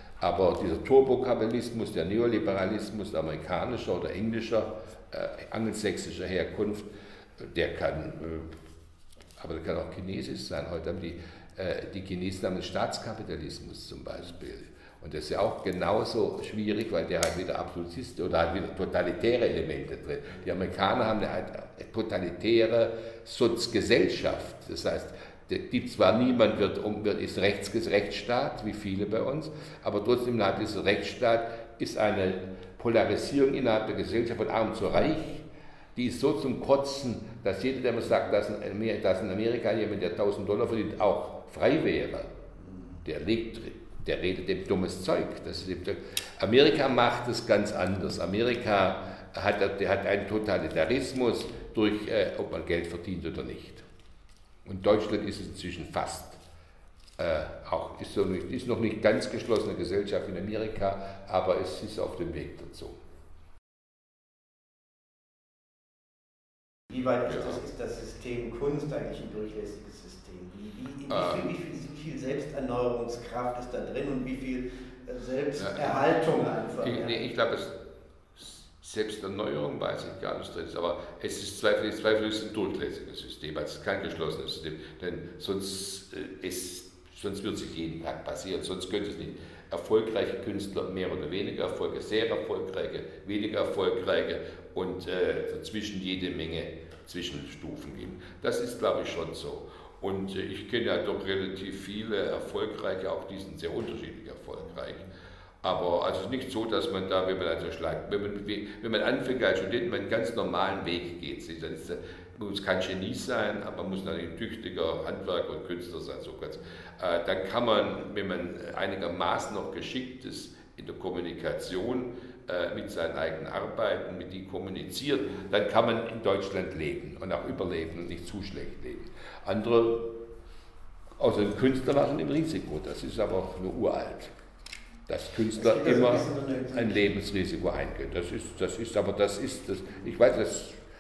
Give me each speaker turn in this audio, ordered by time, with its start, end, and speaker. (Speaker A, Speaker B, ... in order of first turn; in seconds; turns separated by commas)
Speaker A: 0.2-8.5, Speaker A: 9.4-42.3, Speaker B: 42.6-43.0, Speaker A: 43.0-53.9, Speaker A: 54.6-56.4, Speaker A: 57.2-63.0, Speaker B: 66.9-77.2, Speaker A: 67.3-67.6, Speaker A: 71.1-71.5, Speaker A: 75.6-76.0, Speaker A: 76.8-77.8, Speaker A: 78.3-130.1, Speaker A: 131.2-134.3, Speaker A: 135.1-140.8, Speaker B: 135.6-137.2